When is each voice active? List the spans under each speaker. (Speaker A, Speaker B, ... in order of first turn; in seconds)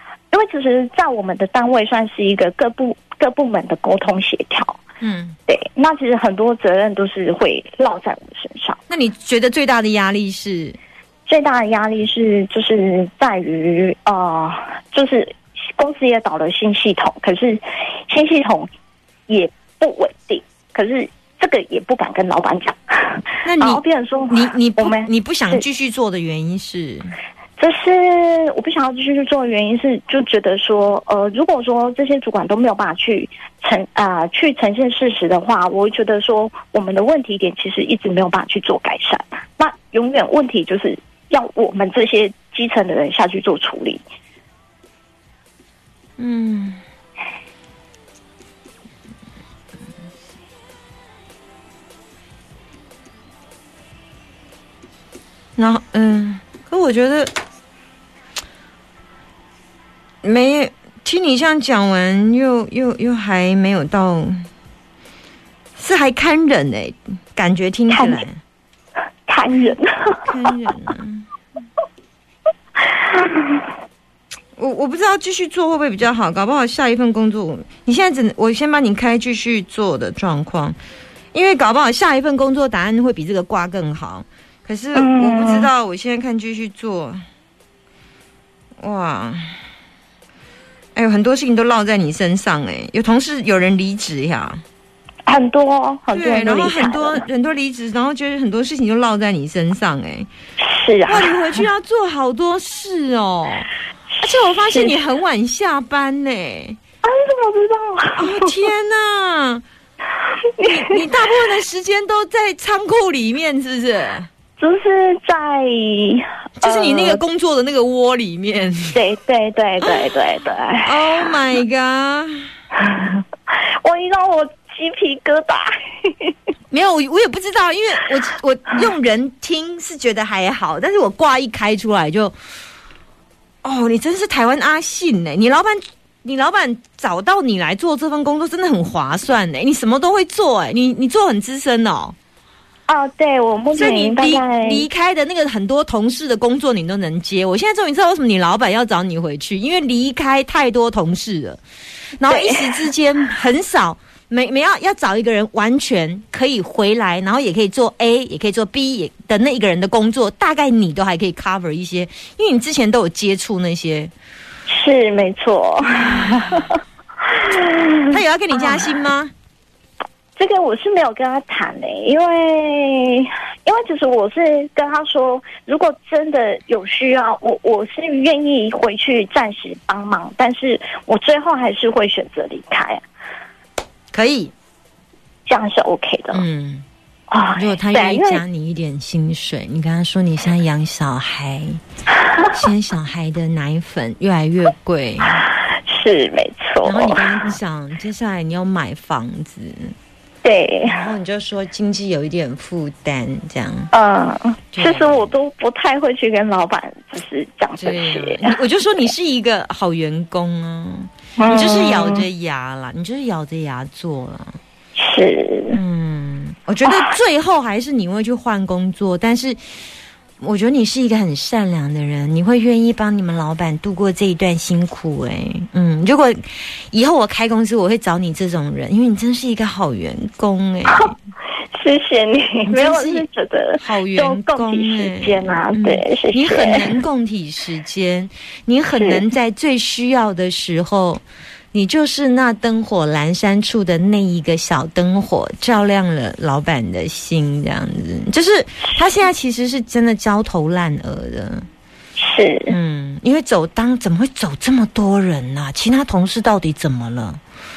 Speaker A: 0.3-4.8, 5.5-8.8, 11.3-18.7, 19.3-25.6, 27.6-44.0, 67.9-68.2, 69.3-70.2, 72.9-73.7, 84.9-85.7, 95.3-97.3, 100.6-101.6, 104.7-105.0, 107.0-108.5, 110.6-111.1, 114.6-117.2, 118.9-121.0, 122.8-126.3, 142.9-144.9, 152.3-152.8, 164.7-168.8, 170.4-183.0, 185.5-186.4, 187.3-188.4, 195.4-197.5, 200.4-201.0, 203.9-208.6, 211.4-212.2, 215.0-215.8, 216.8-217.1, 231.7-236.9, 239.0-239.2, 252.2-252.8
Speaker B: 5.0-5.4, 8.9-10.8, 23.4-27.1, 46.2-46.8, 55.6-57.3, 60.2-64.5, 65.8-68.4, 70.2-71.3, 74.6-80.8, 81.3-87.2, 88.8-89.5, 91.0-94.6, 96.1-100.3, 101.1-103.7, 104.2-106.8, 108.2-109.6, 110.6-114.3, 116.6-119.0, 120.8-122.5, 126.7-132.4, 133.6-142.2, 143.8-151.6, 152.2-164.1, 165.9-166.6, 168.1-169.3, 184.1-184.5, 186.3-186.8, 187.5-191.8, 192.5-195.4, 196.8-199.9, 200.8-203.9, 204.7-205.3, 207.8-214.6, 215.7-219.6, 220.4-231.2, 232.7-233.3, 233.8-241.2, 241.7-251.7, 252.7-257.4